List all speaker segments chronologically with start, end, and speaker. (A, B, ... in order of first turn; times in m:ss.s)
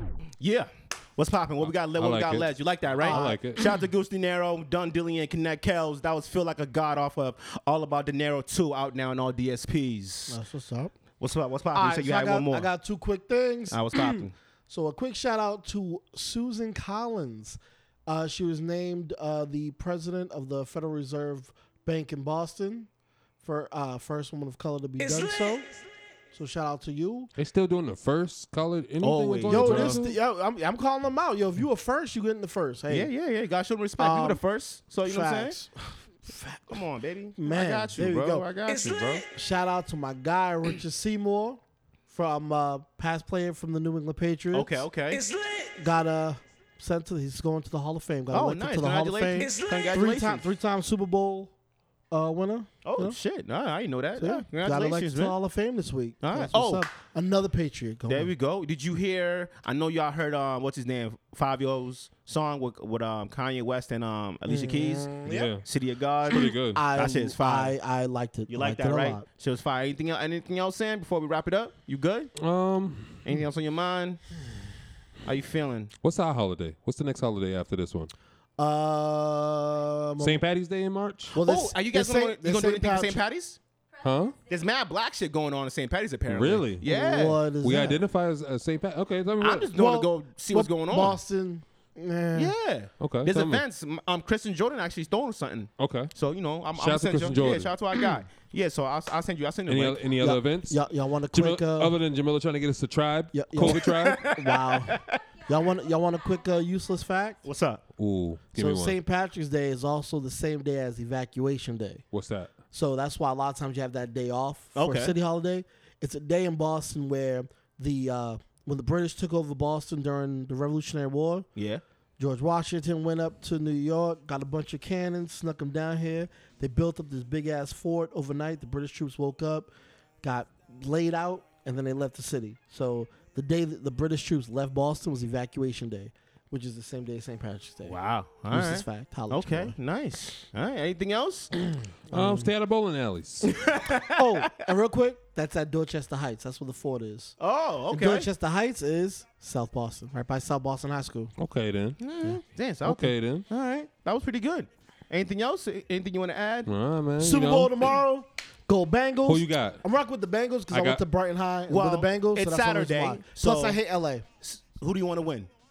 0:00.4-0:10.4 A
0:01.8-0:03.6 B
0:03.0-0:03.7 C
0:10.3-0:10.9 C
0:11.2-0:12.7 A
0:11.7-0:22.9 C
0:13.7-0:14.3 A
0:23.4-0:25.7 C
0:25.0-0:25.3 D
0:26.3-0:27.3 C
0:27.4-0:30.2 B
0:29.0-0:30.0 A
0:29.5-0:33.1 C
0:32.9-0:35.6 A
0:34.0-0:34.4 C
0:35.0-0:36.8 C
0:36.7-0:39.2 A
0:37.4-0:38.5 C
0:38.6-0:39.2 D
0:39.3-0:44.8 C
0:44.5-0:45.2 A
0:45.1-0:45.7 D
0:45.8-0:51.5 C
0:48.3-0:50.4 A
0:49.5-0:49.9 D
0:52.1-0:53.2 C
0:52.8-0:55.3 A
0:54.2-0:58.3 C
0:56.2-0:56.8 A
0:58.1-1:07.8 A
1:04.5-1:05.5 C
1:05.2-1:05.6 B
1:06.3-1:06.8 B
1:06.7-1:09.2 C
1:08.5-1:12.3 A
1:12.4-1:13.3 B
1:13.2-1:14.2 A
1:15.2-1:15.9 A
1:16.0-1:18.1 B
1:18.6-1:20.4 C
1:20.2-1:21.4 B
1:21.3-1:23.2 C
1:21.4-1:23.6 A
1:24.0-1:24.3 B
1:24.5-1:27.4 A
1:26.3-1:26.8 B
1:26.8-1:28.0 C
1:27.6-1:29.7 B
1:29.4-1:31.2 A
1:29.7-1:32.5 C
1:32.3-1:40.2 A
1:33.0-1:33.6 B
1:35.8-1:36.1 B
1:36.7-1:37.7 B
1:39.7-1:44.3 B
1:40.2-1:42.0 C
1:43.3-1:47.4 C
1:43.6-1:45.2 A
1:47.4-1:47.8 A
1:48.0-1:49.0 B
1:48.5-1:52.0 C
1:52.1-1:52.5 B
1:52.7-2:01.5 C
1:54.7-1:55.2 A
2:01.6-2:01.8 A
2:02.2-2:09.7 C
2:10.2-2:18.0 C
2:17.8-2:21.5 A
2:18.5-2:19.7 C
2:22.1-2:22.5 C
2:22.1-2:23.6 B
2:23.5-2:24.5 A
2:24.1-2:27.4 C
2:27.4-2:28.3 A
2:27.9-2:31.3 C
2:31.4-2:32.0 B
2:32.0-2:36.7 A
2:32.8-2:33.4 B
2:36.6-2:37.7 B
2:37.2-2:44.2 C
2:39.2-2:39.8 B
2:40.7-2:41.0 B
2:41.7-2:43.8 A
2:44.4-2:45.5 A